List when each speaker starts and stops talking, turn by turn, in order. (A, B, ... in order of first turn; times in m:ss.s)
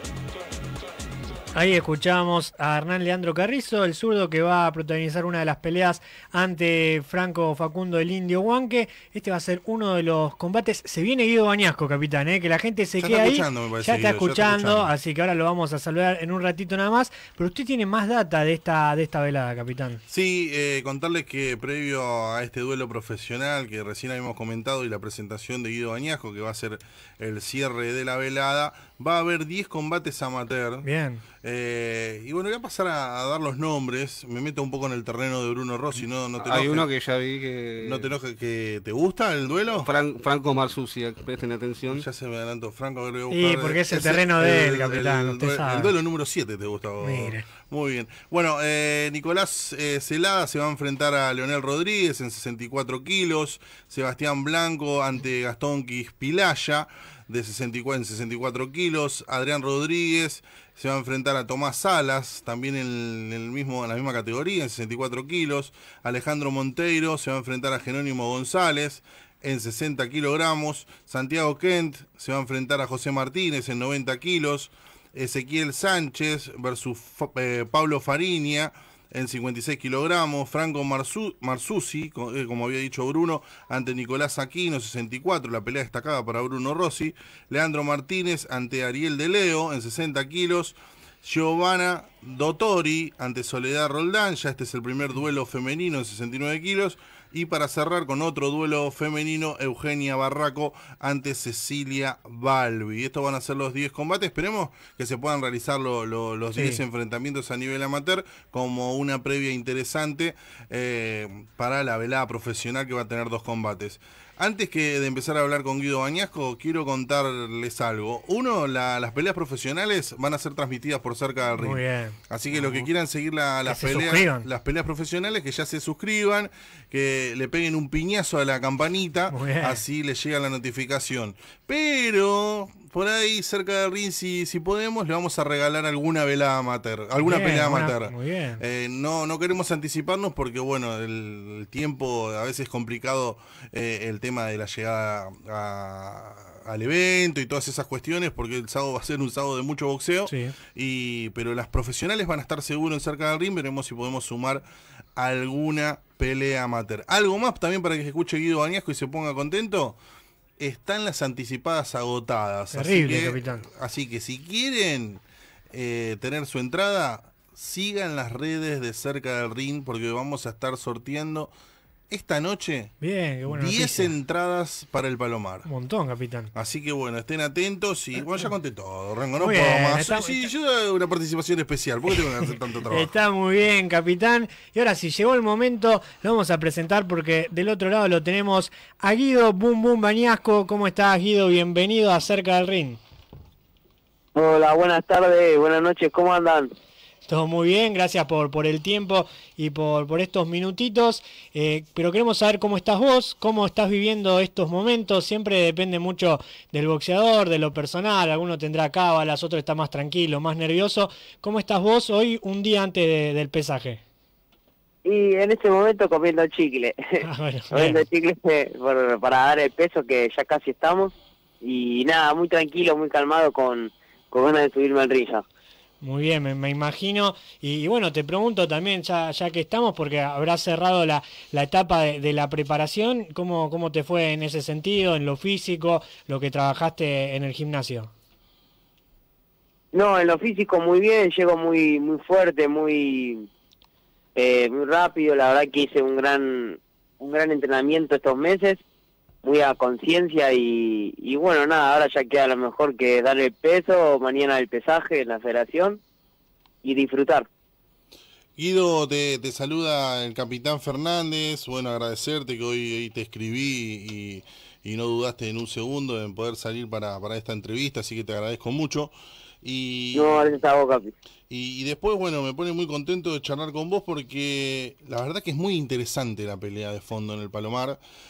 0:01.5-0:20.0 A
0:13.0-0:14.9 B
0:20.1-0:30.9 B
0:30.8-0:31.2 A
0:31.4-0:36.9 B
0:37.1-0:37.7 C
0:37.8-0:40.0 B
0:40.2-0:41.8 C
0:41.9-2:34.6 B
0:43.3-0:45.9 A
0:47.0-0:47.4 A
1:46.5-1:46.8 A
2:01.6-2:02.9 A
2:03.6-2:04.5 A
2:09.3-2:09.8 A
2:17.2-2:18.6 A
2:30.3-2:30.5 A
2:35.2-2:40.0 B
2:40.6-2:51.5 B
2:42.7-2:43.7 A
2:52.1-2:52.9 B
2:53.0-2:54.1 A
2:53.4-2:55.7 B
2:55.6-2:56.5 A
2:56.5-3:03.1 B
2:59.4-3:00.5 A
3:02.9-3:13.0 A
3:14.3-3:16.7 D
3:17.3-3:34.0 A
3:35.0-3:37.2 D
3:37.2-3:38.0 A
3:37.7-3:45.4 D
3:46.0-3:58.1 A
3:59.9-4:03.4 D
4:04.3-4:08.8 D
4:09.4-4:16.0 D
4:16.8-4:17.5 D
4:18.6-4:30.5 B
4:30.1-4:31.1 D
4:31.5-4:38.0 B